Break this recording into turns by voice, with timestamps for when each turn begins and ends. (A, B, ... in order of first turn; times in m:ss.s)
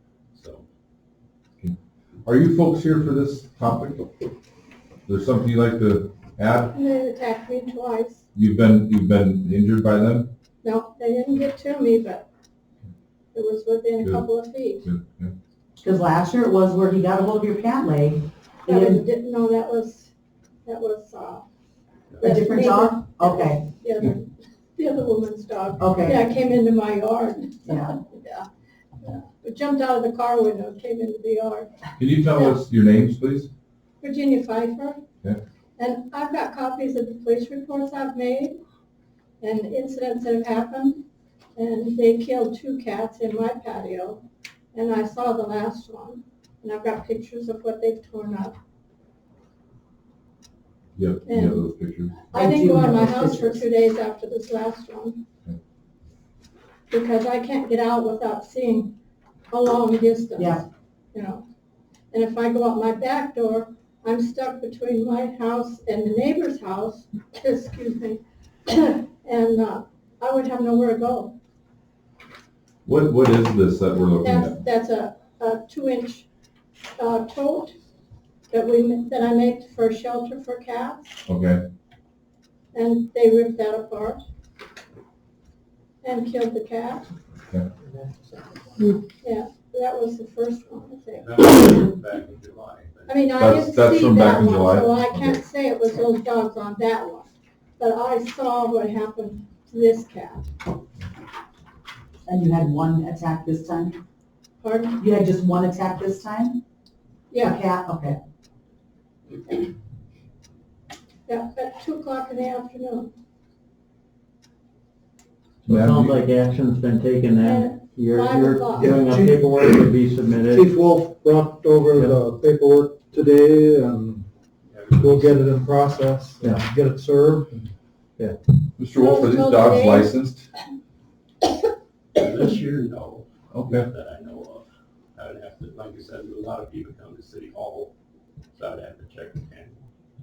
0:00.3-0:00.6 A
0:01.6-0:04.1 B
0:05.1-0:06.8 B
0:06.7-0:08.2 C
0:08.4-0:10.3 B
0:10.6-0:12.3 C
0:13.3-0:14.9 C
0:14.8-0:15.3 B
0:15.8-0:19.0 D
0:18.7-0:20.1 C
0:20.7-0:21.5 C
0:22.2-0:28.5 C
0:22.2-0:23.7 D
0:25.8-0:26.2 D
0:27.7-0:27.9 D
0:29.0-0:31.7 C
0:32.0-0:33.5 B
0:32.3-0:32.5 C
0:34.0-0:35.0 C
0:35.8-0:38.6 C
0:39.4-0:41.0 C
0:41.6-0:44.2 C
0:44.7-0:48.6 C
0:51.0-0:52.2 B
0:51.3-0:51.6 C
0:52.3-0:55.2 C
0:52.4-0:53.6 D
0:56.9-0:59.0 C
0:59.5-1:01.4 C
1:00.4-1:00.6 D
1:02.1-1:11.4 C
1:12.9-1:14.6 B
1:14.2-1:16.3 C
1:17.0-1:17.8 C
1:18.5-1:21.2 C
1:21.3-1:21.6 B
1:22.7-1:24.2 C
1:26.0-1:27.1 C
1:29.2-1:31.4 C
1:31.2-1:33.3 A
1:33.1-1:40.5 C
1:33.4-1:35.4 B
1:42.3-1:44.0 D
1:44.6-1:45.0 C
1:45.0-1:46.6 D
1:47.3-1:47.6 C
1:47.4-1:48.2 D
1:51.3-1:53.1 C
1:55.6-1:56.2 B
1:55.7-2:00.7 E
1:57.4-1:59.0 C
1:58.8-1:59.9 F
2:00.5-2:04.3 F
2:01.9-2:02.2 E
2:04.7-2:06.0 A
2:04.9-2:07.7 F
2:06.4-2:06.7 E
2:08.8-2:10.5 B
2:09.0-2:10.1 C
2:12.2-2:17.9 A
2:13.5-2:13.9 B
2:18.6-2:19.8 A